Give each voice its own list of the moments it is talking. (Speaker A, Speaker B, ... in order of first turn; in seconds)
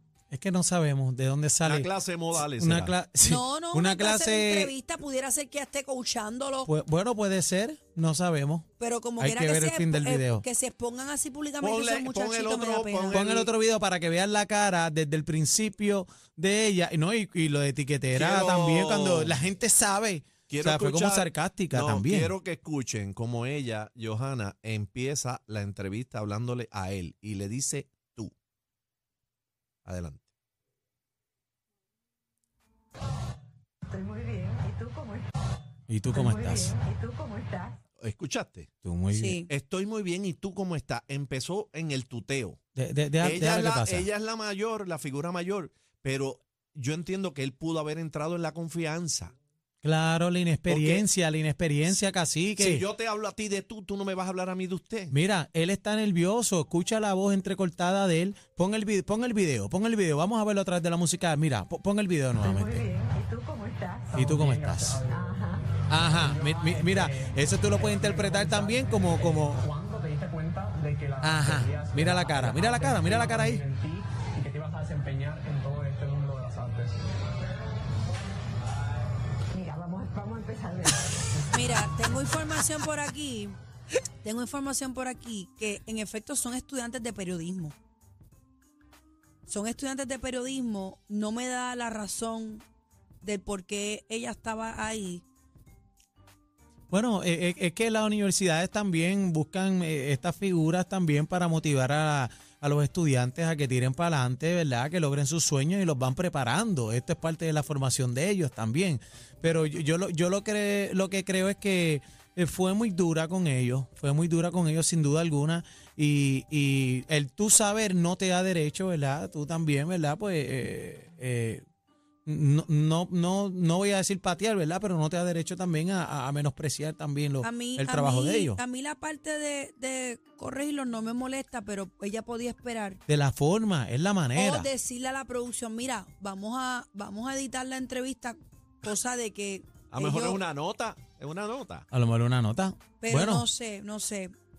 Speaker A: 0.3-4.7, 6.7-8.7, 9.2-10.4, 13.1-22.3, 35.9-36.8, 38.8-39.4, 42.7-44.1, 49.8-52.8, 55.1-62.9, 64.1-65.0, 65.9-69.6, 71.2-73.6, 96.9-121.6, 122.2-128.6, 133.1-134.7, 141.9-143.4
Speaker B: 1.6-2.9, 11.6-13.5, 18.1-19.4, 20.5-28.3, 29.9-30.2, 38.0-38.7, 39.5-42.6, 43.2-49.3, 50.7-51.1, 52.6-55.1, 139.9-141.8
Speaker C: 3.2-6.7, 8.8-13.2, 39.1-39.5, 81.5-83.6, 84.2-87.7, 89.5-92.6, 93.2-95.2, 127.4-133.0, 134.3-140.4, 143.0-144.3
Speaker D: 33.9-35.3, 36.1-37.8, 62.4-64.2, 65.1-65.6, 79.5-81.4
Speaker E: 64.1-65.3, 66.1-77.0